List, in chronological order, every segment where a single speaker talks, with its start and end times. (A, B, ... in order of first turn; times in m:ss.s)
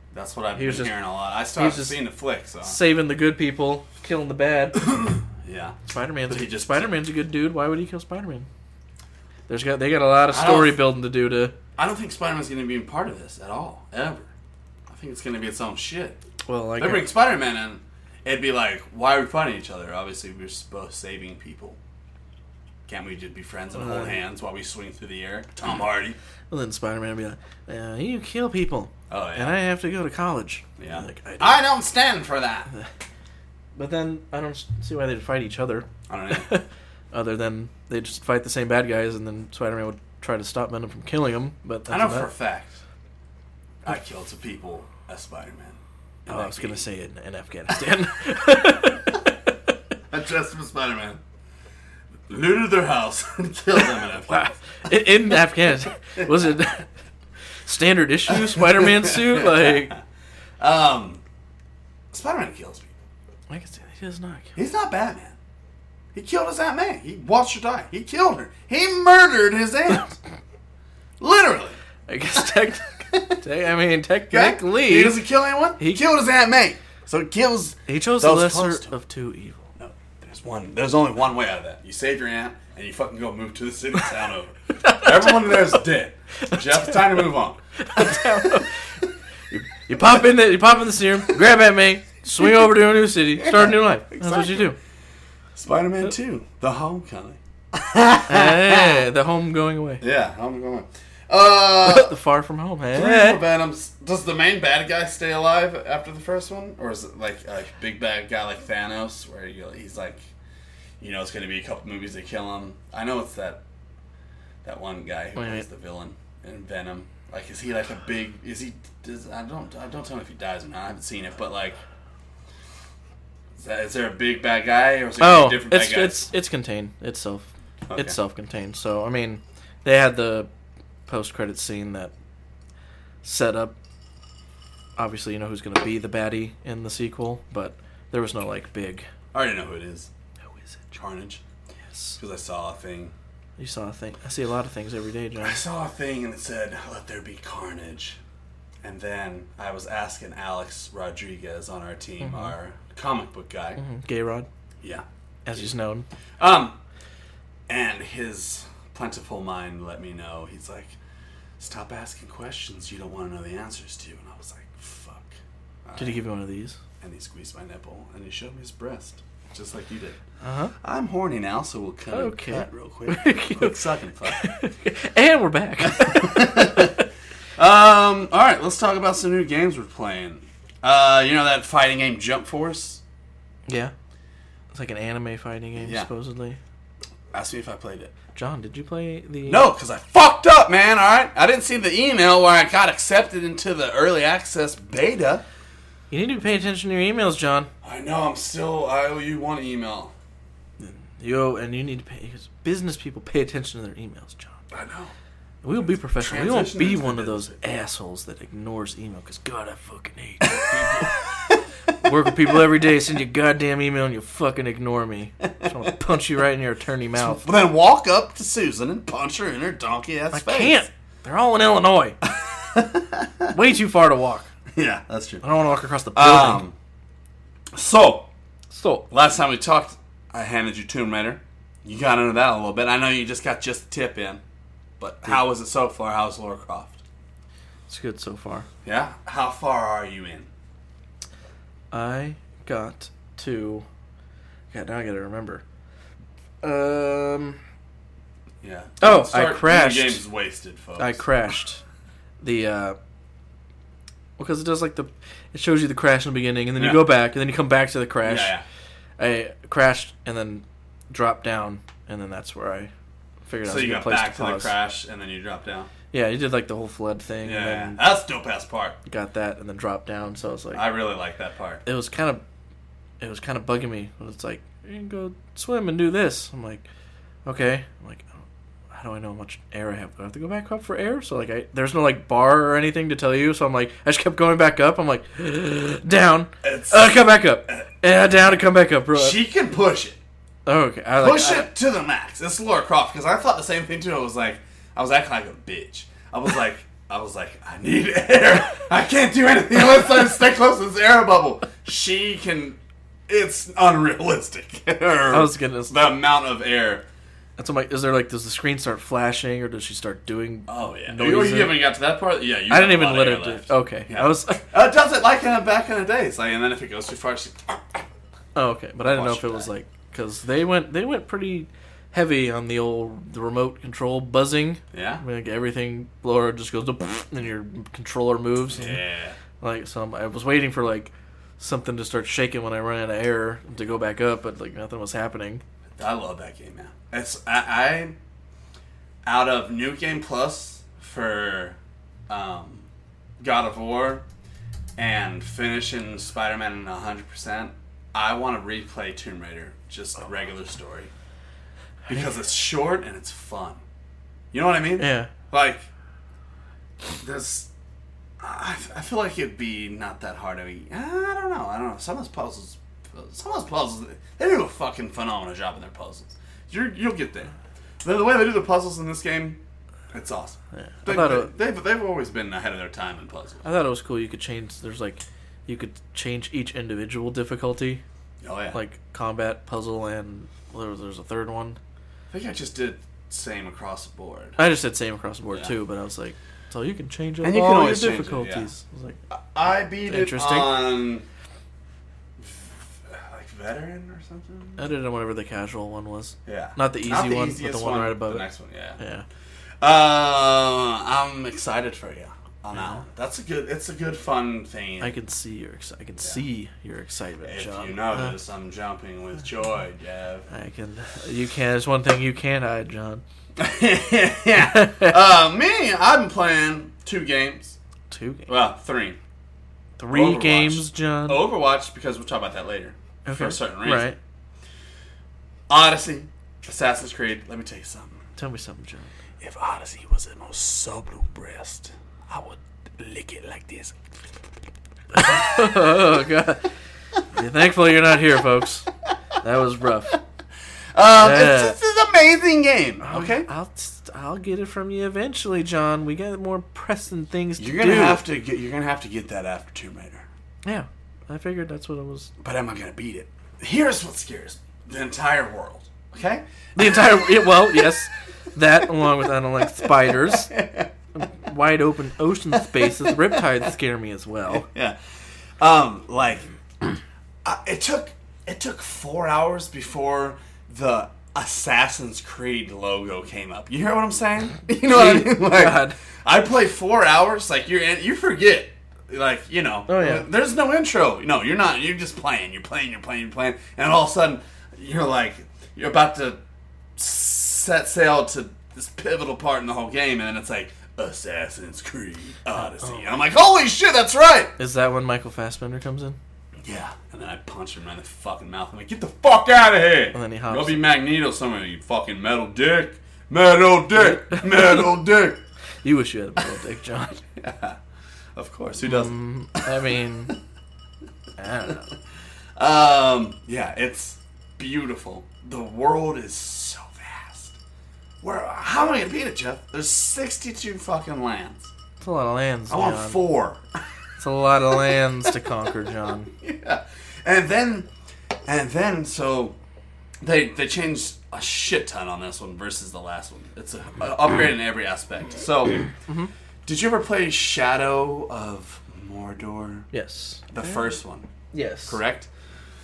0:00.1-0:02.8 A
0:00.5-0:00.9 B
0:01.6-0:02.0 B
0:02.6-0:04.8 B
0:04.8-0:05.8 A
0:05.9-0:08.5 B
0:06.3-0:06.9 A
0:09.5-0:11.5 B
0:10.3-0:10.8 A
0:11.8-0:14.3 A
0:14.9-0:16.2 A
0:16.5-0:17.1 B
0:16.8-0:21.8 A
0:22.9-0:26.2 A
0:23.7-0:24.2 B
0:26.5-0:31.6 B
0:29.1-0:29.6 A
0:30.8-0:32.7 A
0:33.8-0:42.3 B
0:36.1-0:36.5 A
0:41.9-0:42.8 A
0:43.8-0:46.8 A
0:46.3-0:49.5 B
0:50.1-0:51.2 A
0:52.3-0:54.5 A
0:54.3-0:56.9 B
0:57.6-1:00.0 B
0:58.4-0:59.9 A
1:00.6-1:01.2 A
1:02.1-1:02.9 A
1:03.5-1:04.6 B
1:04.6-1:05.4 A
1:06.1-1:10.1 A
1:11.2-1:11.8 A
1:12.1-1:15.2 B
1:14.3-1:18.9 A
1:17.9-1:19.7 B
1:19.8-1:28.5 A
1:24.8-1:25.5 B
1:27.8-1:28.7 B
1:29.5-1:34.8 B
1:33.4-1:34.7 A
1:35.6-1:39.0 A
1:38.3-1:40.0 B
1:40.0-1:42.2 A
1:41.8-1:43.4 B
1:42.9-1:50.3 A
1:51.0-1:53.6 A
1:54.6-2:01.8 A
1:55.4-1:55.7 B
2:03.6-2:06.3 A
2:05.2-2:10.5 B
2:07.9-2:08.2 A
2:11.1-2:12.1 B
2:13.2-2:13.8 B
2:15.0-2:19.1 B
2:19.3-2:20.1 A
2:20.6-2:21.0 B
2:20.9-2:21.4 A
2:21.9-2:22.2 B
2:22.2-2:23.2 A
2:23.6-2:25.6 B
2:25.4-2:28.2 A
2:28.8-2:33.8 A
2:32.2-2:32.5 B
2:33.8-2:34.5 B
2:35.5-2:36.1 B
2:36.4-2:36.8 A
2:37.7-2:41.0 A
2:41.6-2:46.2 A
2:46.0-2:46.8 B
2:47.0-2:50.2 A
2:50.4-2:50.7 B
2:50.8-2:54.4 A
2:52.1-2:57.0 B
2:55.8-2:57.0 A
2:57.6-3:03.0 A
3:03.7-3:03.9 B
3:04.7-3:06.6 B
3:05.8-3:06.1 A
3:07.3-3:08.1 A
3:08.4-3:09.7 B
3:09.5-3:15.4 A
3:16.1-3:17.7 B
3:17.8-3:20.1 A
3:20.8-3:24.6 B
3:24.7-3:25.1 A
3:25.6-3:31.2 B
3:25.8-3:27.8 A
3:30.6-3:31.5 A
3:32.0-3:37.4 B
3:37.2-3:40.8 A
3:40.3-3:42.2 B
3:42.2-3:43.5 A
3:43.5-3:44.5 B
3:44.7-3:45.4 A
3:45.4-3:46.6 B
3:46.2-3:46.8 A
3:47.7-3:48.3 A
3:48.7-3:49.1 B
3:49.1-3:54.4 A
3:55.0-3:57.0 A
3:57.9-3:58.7 B
3:58.8-4:00.5 A
4:01.9-4:03.9 B
4:04.7-4:05.6 B
4:06.6-4:07.6 B
4:08.6-4:11.3 A
4:09.0-4:10.2 B
4:11.0-4:11.8 B
4:12.4-4:13.0 B
4:14.4-4:18.6 B
4:16.8-4:17.1 A
4:18.2-4:18.6 A
4:19.2-4:22.9 B
4:23.5-4:24.7 B
4:23.6-4:25.9 A
4:26.1-4:28.0 B
4:27.4-4:29.0 A
4:29.1-4:30.8 B
4:30.7-4:31.8 A
4:31.8-4:32.4 B
4:33.2-4:36.8 B
4:37.4-4:49.4 B
4:46.6-4:47.8 A
4:49.1-4:50.2 A
4:50.7-4:51.7 B
4:51.2-5:07.0 A
5:05.3-5:06.0 B
5:07.6-5:11.8 B
5:10.7-5:18.1 A
5:12.7-5:14.7 B
5:18.6-5:29.0 B
5:19.0-5:19.7 A
5:24.9-5:25.2 A
5:28.7-5:29.4 A
5:29.6-5:35.6 B
5:36.0-5:38.2 A
5:39.2-5:41.8 A
5:42.3-5:42.9 A
5:43.4-5:44.2 A
5:45.0-5:51.1 A
5:52.1-5:53.8 A
5:54.5-5:55.9 A
5:55.0-5:55.3 B
5:57.0-5:57.7 A
5:58.4-6:09.6 A
6:10.1-6:13.7 A
6:10.7-6:11.5 B
6:13.6-6:18.0 B
6:18.4-6:18.8 A
6:18.7-6:21.8 B
6:22.3-6:24.6 A
6:24.6-6:29.2 B
6:27.4-6:28.7 A
6:29.3-6:31.2 A
6:30.1-6:30.8 B
6:32.4-6:34.9 A
6:34.8-6:38.5 B
6:36.5-6:39.0 A
6:39.0-6:39.3 B
6:39.8-6:45.2 A
6:45.0-6:48.4 B
6:47.4-6:50.5 A
6:50.5-6:53.2 B
6:53.6-6:57.8 A
6:54.6-6:55.1 B
6:58.1-6:58.5 B
6:58.5-6:59.2 A
7:00.0-7:01.4 B
7:00.1-7:04.2 A
7:03.2-7:04.2 B
7:05.7-7:08.2 A
7:08.4-7:09.1 B
7:09.4-7:14.0 A
7:15.1-7:16.7 B
7:17.3-7:18.9 B
7:19.4-7:20.2 B
7:20.9-7:23.5 A
7:21.2-7:21.8 B
7:23.0-7:28.2 B
7:27.6-7:30.3 A
7:30.6-7:32.3 B
7:32.4-7:37.9 A
7:36.8-7:40.5 B
7:39.7-7:40.9 A
7:41.2-7:44.7 B
7:42.8-7:43.4 A
7:44.5-7:45.0 A
7:45.6-8:06.4 A
7:54.9-7:56.0 B
7:59.9-8:00.3 B
8:07.0-8:14.5 A
8:14.6-8:16.2 B
8:16.6-8:25.4 A
8:20.1-8:20.8 B
8:24.0-8:24.5 B
8:25.8-8:27.2 B
8:27.4-8:27.8 A
8:28.4-8:30.4 A
8:28.8-8:30.4 B
8:31.4-8:31.9 B
8:32.6-8:37.6 A
8:38.2-8:41.7 A
8:42.0-8:43.2 B
8:42.7-8:43.6 A
8:44.2-8:46.3 B
8:46.4-8:47.9 A
8:48.5-8:49.6 A
8:50.2-8:55.9 A
8:56.6-8:59.9 A
8:59.9-9:00.8 B
9:00.5-9:01.3 A
9:01.5-9:02.0 B
9:01.9-9:02.3 A